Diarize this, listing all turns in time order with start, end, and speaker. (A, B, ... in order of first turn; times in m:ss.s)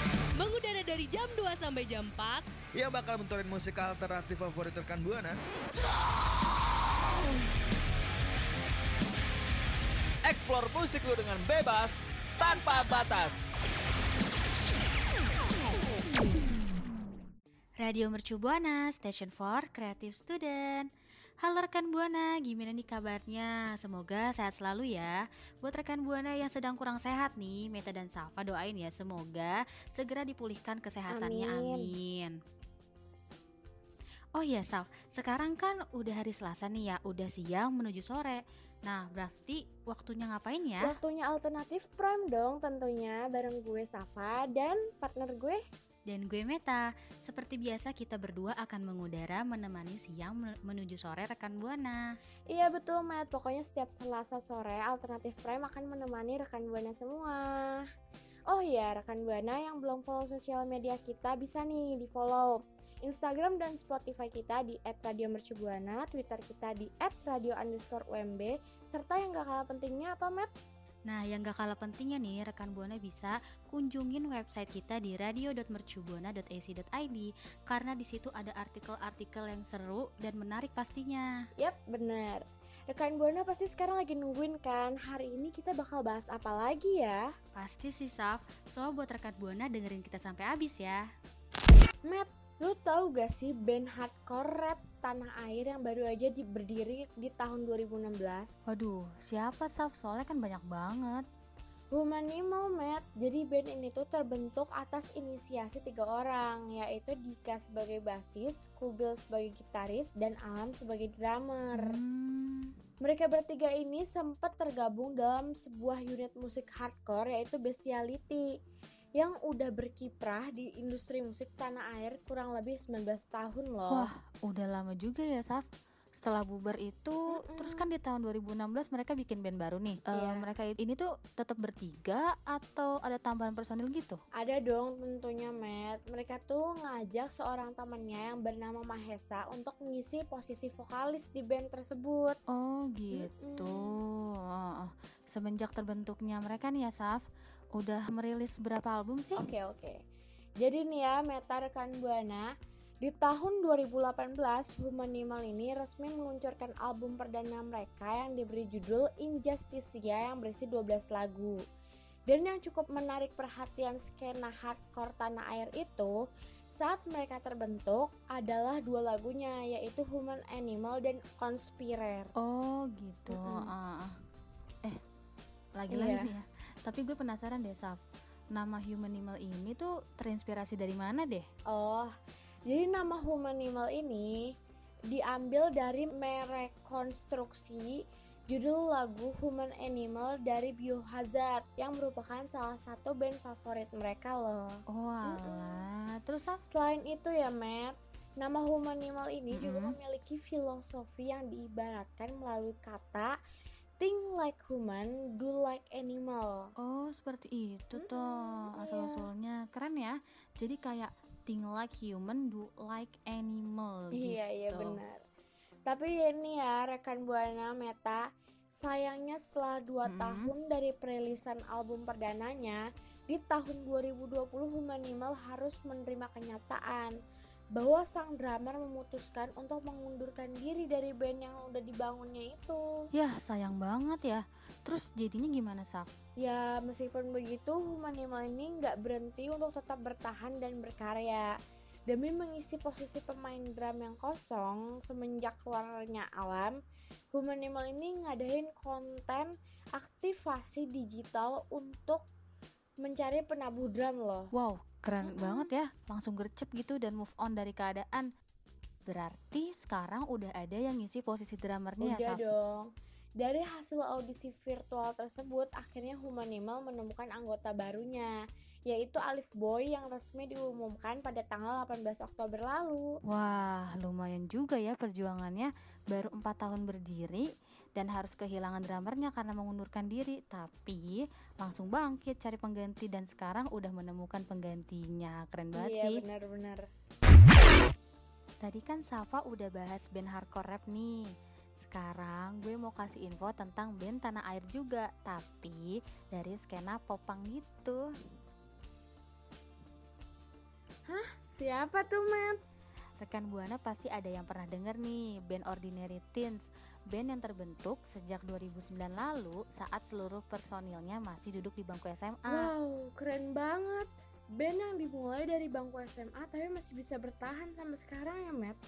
0:00.4-0:02.4 A
0:02.7-0:05.4 B
0:10.2-0:13.6 B
0:17.8-0:20.9 C
0:21.4-0:32.4 C
0:31.1-0:31.9 D
0:34.3-0:41.0 C
0:40.8-0:45.6 D
0:46.1-0:52.0 C
0:52.5-0:57.9 D
0:58.5-1:10.5 D
1:11.1-1:21.3 C
1:21.6-1:27.3 D
1:27.5-1:31.0 C
1:32.0-1:38.5 D
1:38.7-1:41.2 C
1:41.9-1:52.0 D
1:51.8-1:52.8 C
1:53.0-1:58.5 D
1:59.2-2:04.1 D
2:03.9-2:05.6 C
2:06.1-2:14.2 C
2:07.3-2:07.9 D
2:10.1-2:10.5 D
2:14.4-2:22.4 D
2:22.5-2:27.2 C
2:23.1-2:24.0 D
2:27.8-2:29.5 C
2:29.4-2:30.0 D
2:30.6-2:32.5 D
2:33.0-2:41.6 D
2:42.3-2:46.1 D
2:46.8-2:52.3 D
2:52.4-2:54.1 C
2:53.3-2:53.7 D
2:55.8-2:58.0 C
2:55.9-2:56.3 D
2:58.5-3:01.4 C
3:01.7-3:02.1 D
3:02.7-3:04.4 D
3:05.1-3:08.0 D
3:08.5-3:15.8 D
3:14.9-3:16.6 C
3:16.7-3:23.3 D
3:19.5-3:20.0 C
3:24.0-3:26.7 D
3:26.8-3:35.0 C
3:27.9-3:29.3 D
3:34.1-3:35.2 D
3:35.9-3:38.2 D
3:38.8-3:47.1 D
3:40.0-3:40.5 C
3:47.7-3:52.8 D
3:53.1-3:56.1 C
3:56.4-4:01.5 D
4:02.1-4:06.8 D
4:07.3-4:12.2 D
4:13.0-4:14.5 D
4:14.5-4:18.3 C
4:15.2-4:15.7 D
4:19.0-4:22.5 C
4:22.0-4:22.9 D
4:23.4-4:28.3 D
4:28.9-4:33.1 D
4:33.2-4:46.2 C
4:45.7-4:46.8 D
4:48.6-4:51.3 C
4:51.8-4:58.0 C
5:01.1-5:02.6 D
5:03.2-5:06.6 C
5:07.1-5:12.7 C
5:12.5-5:18.8 D